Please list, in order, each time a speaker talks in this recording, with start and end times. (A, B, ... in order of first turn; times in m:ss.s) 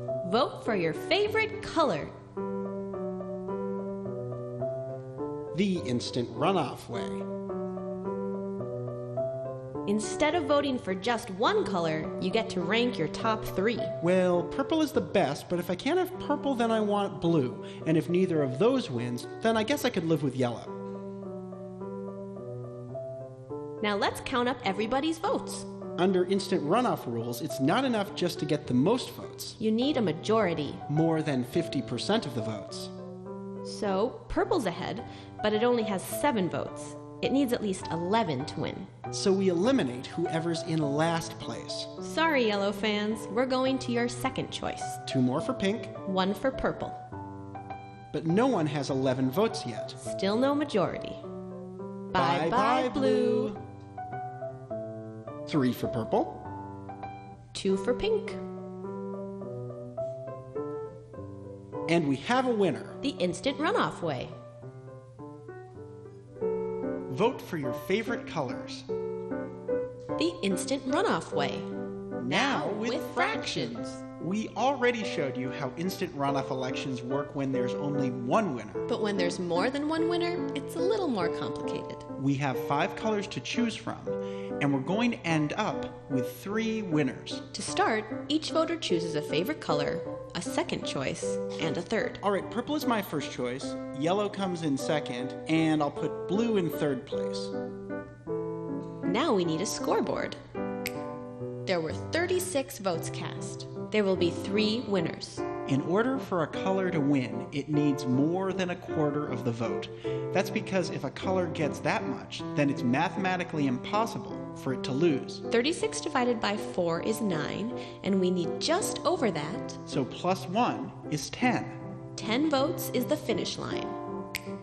0:00.2-0:02.1 A
0:05.5-0:07.2 B
0:09.8-0:14.0 A
0:14.0-0:20.7 B
0:23.8-0:25.7 A
0:26.0-0:29.6 B
0:29.6-0:30.8 A
0:30.9-0:32.9 B
0:33.6-0:38.9 A
0:39.1-0:41.9 B
0:42.0-0:45.0 A
0:45.1-0:45.9 B
0:46.0-0:47.0 A
0:48.1-0:50.0 B
0:50.0-0:51.2 A
0:52.1-0:53.6 A
0:52.1-0:53.6 B
0:55.5-0:56.4 B
0:57.5-0:58.4 A
1:01.9-1:03.0 B
1:03.0-1:04.3 A
1:07.1-1:08.9 B
1:10.2-1:11.7 A
1:12.2-1:18.9 B
1:12.2-1:14.0 A
1:18.9-1:22.0 A
1:22.2-1:27.4 B
1:27.5-1:32.2 A
1:32.2-1:37.5 B
1:39.0-1:40.4 A
1:41.7-1:45.4 A
1:45.7-1:55.4 B
1:55.5-1:59.8 A
1:59.9-2:01.8 B
2:02.2-2:04.0 A